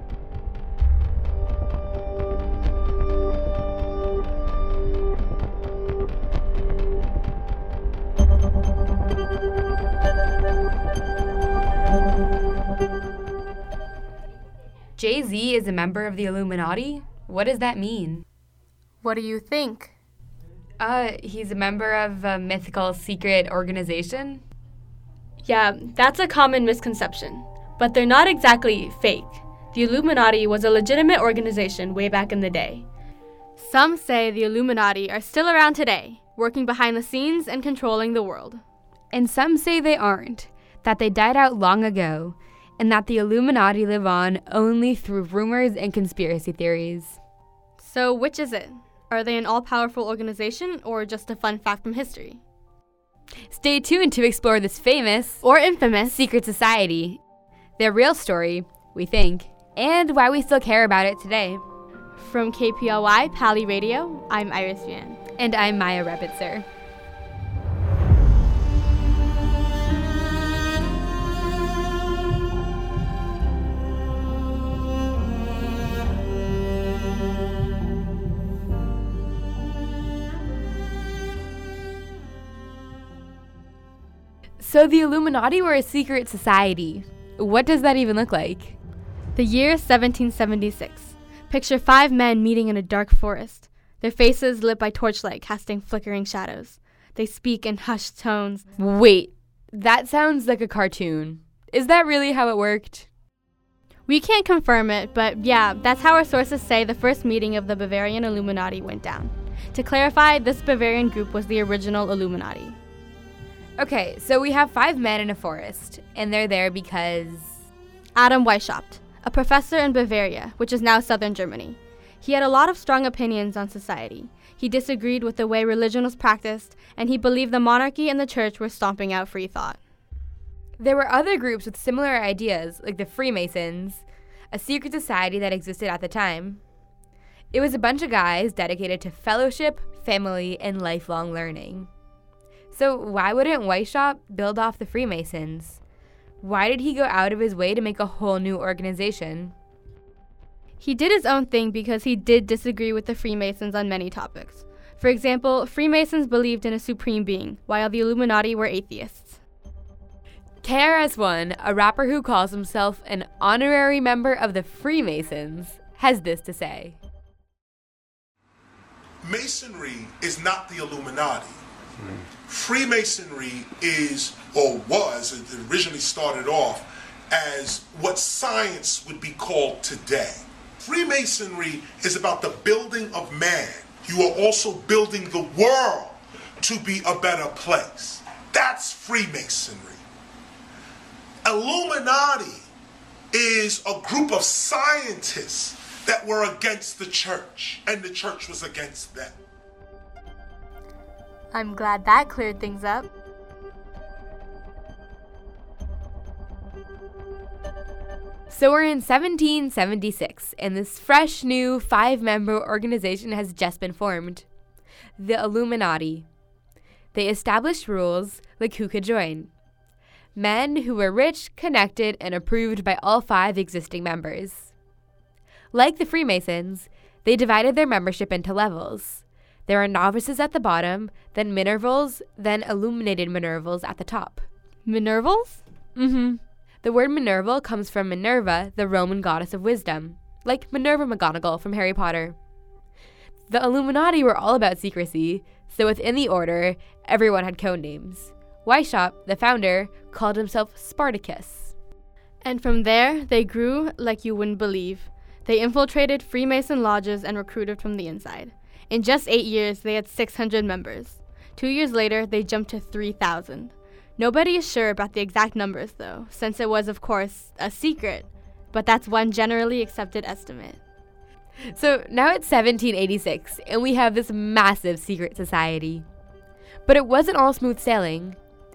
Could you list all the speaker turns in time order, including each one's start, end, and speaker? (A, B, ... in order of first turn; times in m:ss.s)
0:15.0-0:18.2 A
0:19.0-0:19.9 B
0:20.8-0:24.4 A
0:25.4-0:32.9 B
0:33.6-0:38.6 B
0:39.1-0:47.2 A
0:47.8-0:52.4 B
0:53.5-0:55.4 A
0:55.4-0:56.2 B
0:56.1-0:57.2 A
0:57.8-1:01.6 A
1:02.2-1:05.2 B
1:05.4-1:06.7 A
1:24.6-1:28.8 A
1:29.4-1:38.6 B
1:38.8-1:43.1 A
1:44.1-1:52.8 B
1:53.8-1:57.6 A
1:58.2-2:09.8 B
2:10.8-2:16.6 A
2:17.5-2:21.9 A
2:22.7-2:25.8 A
2:26.4-2:29.5 A
2:30.8-2:39.4 B
2:40.6-2:47.0 A
2:49.2-2:51.6 C
2:52.4-3:10.0 C
3:11.5-3:12.6 C
3:13.3-3:19.4 C
3:21.5-3:23.1 B
3:28.5-3:34.4 A
3:35.2-3:36.3 A
3:37.1-3:39.5 A
3:40.4-3:44.7 A
3:45.7-3:54.5 A
3:54.8-3:55.6 B
3:56.0-4:02.4 A
4:03.5-4:11.8 A
4:12.4-4:30.8 B
4:31.7-4:36.0 A
4:36.9-4:38.4 A